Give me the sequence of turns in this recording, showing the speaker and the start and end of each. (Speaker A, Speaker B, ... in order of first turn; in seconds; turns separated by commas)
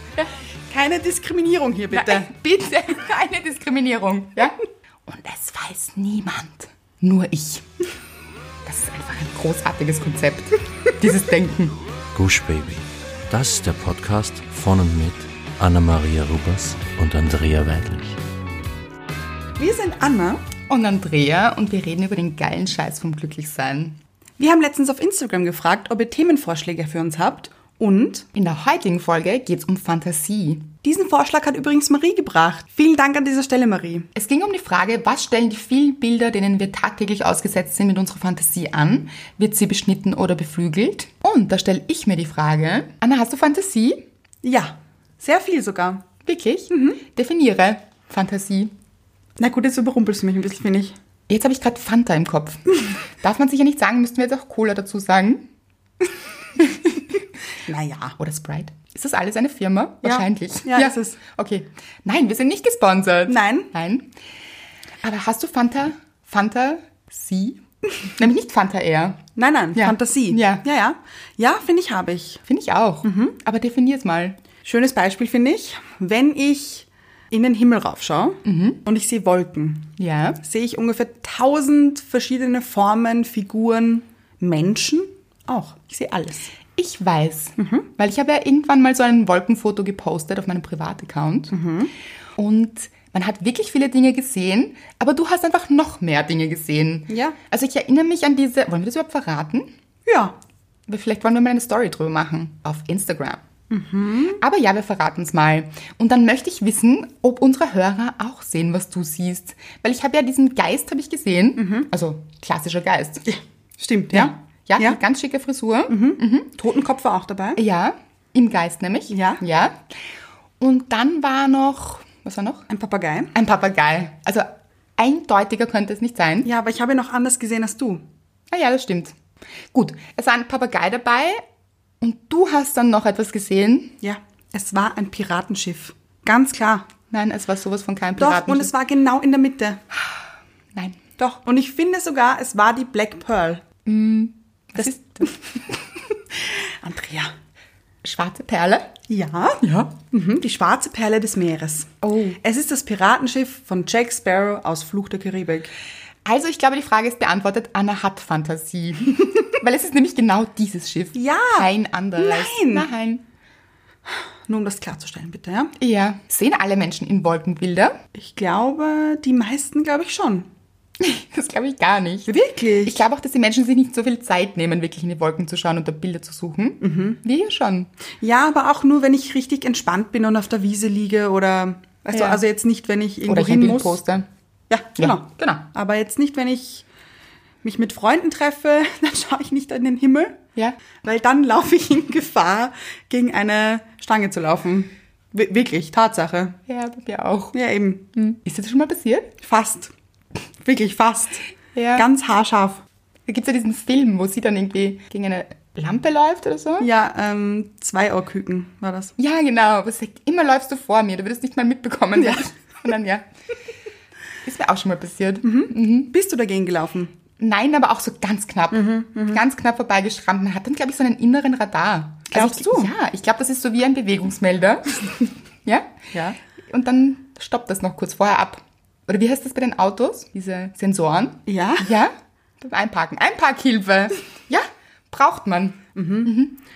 Speaker A: 0.7-2.3, Speaker B: 1.9-7.7, Speaker B: 8.7-11.8, Speaker C: 12.1-18.2, Speaker A: 19.6-20.4, Speaker B: 20.7-24.0, Speaker A: 24.4-28.3, Speaker B: 28.3-30.7, Speaker A: 30.8-34.1, Speaker B: 34.1-44.0, Speaker A: 44.4-46.0, Speaker B: 46.2-48.7, Speaker A: 46.7-47.0, Speaker A: 49.4-51.0, Speaker B: 51.3-55.5, Speaker B: 56.6-57.0, Speaker A: 57.7-58.2, Speaker B: 58.2-64.1, Speaker A: 60.0-61.2, Speaker A: 63.3-63.7, Speaker B: 65.0-69.2, Speaker A: 69.3-72.4, Speaker B: 69.7-70.6, Speaker B: 72.5-74.3, Speaker A: 73.0-73.4, Speaker A: 74.6-86.5, Speaker B: 78.4-78.8, Speaker B: 80.0-80.4, Speaker B: 86.8-91.5, Speaker A: 87.6-87.9, Speaker A: 91.5-91.9, Speaker B: 92.4-99.7, Speaker A: 97.1-97.3, Speaker A: 100.0-100.3, Speaker B: 100.9-103.4, Speaker A: 103.7-104.4, Speaker B: 104.3-113.2, Speaker A: 111.6-111.9, Speaker A: 113.3-115.0, Speaker B: 114.1-116.5, Speaker A: 115.9-117.6, Speaker B: 117.5-119.8, Speaker A: 119.1-119.4, Speaker B: 120.6-122.7, Speaker A: 122.7-123.3, Speaker B: 123.3-126.5, Speaker A: 126.4-128.0, Speaker B: 128.5-129.1, Speaker B: 129.7-131.4, Speaker B: 132.0-134.0, Speaker A: 134.0-136.9, Speaker B: 137.1-138.7, Speaker A: 138.2-139.8, Speaker A: 141.2-143.6, Speaker B: 143.8-145.4, Speaker A: 146.5-147.3, Speaker B: 148.0-148.9, Speaker A: 149.1-155.7, Speaker B: 149.6-150.0, Speaker B: 152.0-152.4, Speaker B: 156.2-163.2, Speaker A: 161.1-162.9, Speaker A: 164.1-165.7, Speaker B: 165.8-168.0, Speaker A: 168.2-170.5, Speaker B: 171.0-177.9, Speaker A: 172.3-173.0, Speaker A: 176.8-177.2, Speaker A: 178.2-184.0, Speaker B: 182.1-182.4, Speaker B: 183.3-184.2, Speaker A: 184.7-186.8, Speaker B: 185.0-185.7, Speaker A: 187.6-190.4, Speaker A: 191.0-196.6, Speaker B: 196.7-197.5, Speaker A: 197.5-198.1, Speaker B: 198.1-199.3, Speaker A: 199.4-199.9, Speaker A: 200.6-201.4, Speaker B: 201.7-202.1, Speaker A: 201.9-202.8, Speaker B: 203.3-206.9, Speaker A: 206.8-209.1, Speaker B: 209.2-213.2, Speaker B: 214.4-216.1, Speaker A: 215.4-217.1, Speaker B: 217.4-226.0, Speaker A: 218.7-219.4, Speaker A: 222.3-222.9, Speaker A: 226.1-226.4, Speaker B: 226.6-236.6, Speaker A: 231.5-231.9, Speaker A: 235.9-236.3